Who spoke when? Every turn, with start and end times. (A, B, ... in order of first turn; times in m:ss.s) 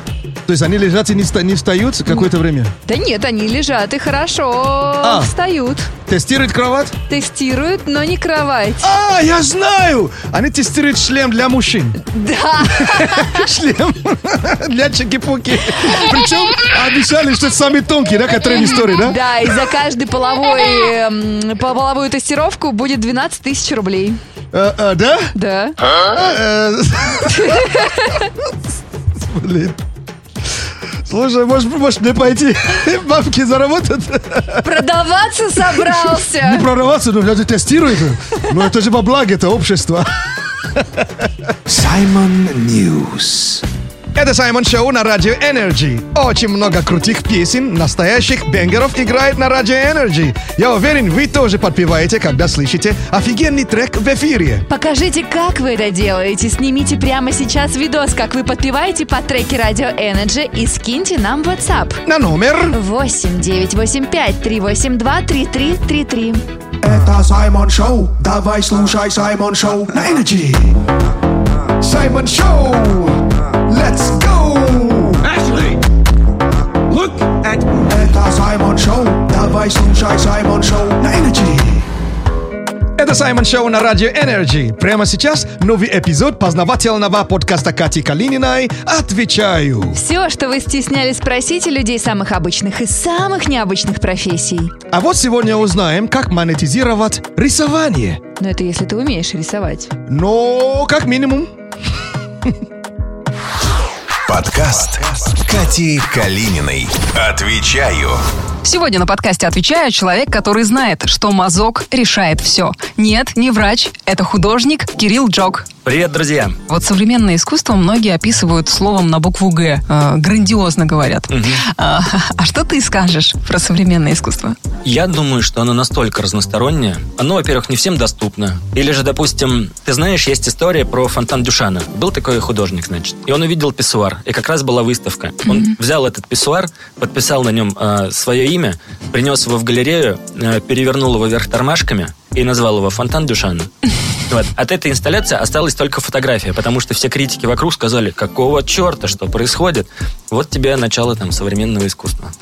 0:00.4-0:02.7 A
0:02.8-0:05.9 B
0:05.0-0:05.3 A
0:06.1-0:06.9 A
0:07.1-0:08.9 B
0:08.8-0:12.0 A
0:12.0-0:13.4 B
0:12.6-0:19.2 A
0:18.4-0:24.2 B
0:24.5-0:25.3 A
0:25.3-0:25.8 B
0:25.8-0:27.8 A
0:27.3-0:28.2 B
0:29.2-0:29.8 A
0:31.0-0:34.7 A
0:34.6-0:36.6 B
0:35.7-0:40.1 A
0:40.8-0:41.0 A
0:41.7-0:43.6 C
0:44.1-0:54.6 A
0:54.7-1:02.0 B
1:02.0-1:02.8 A
1:02.7-1:06.4 B
1:06.8-1:10.7 C
1:09.9-1:10.2 A
1:11.8-1:13.1 A
1:11.9-1:12.8 C
1:13.7-1:14.5 C
1:13.8-1:15.2 A
1:17.9-1:21.8 C
1:23.0-1:30.0 A
1:29.9-1:34.7 B
1:34.9-1:38.2 A
1:38.4-1:39.9 B
1:40.1-1:41.5 A
1:44.3-1:48.2 D
1:48.6-1:55.7 E
1:55.8-1:56.6 F
1:56.7-2:04.6 E
2:01.3-2:01.6 F
2:04.8-2:23.7 F
2:15.4-2:15.7 E
2:24.3-2:32.3 F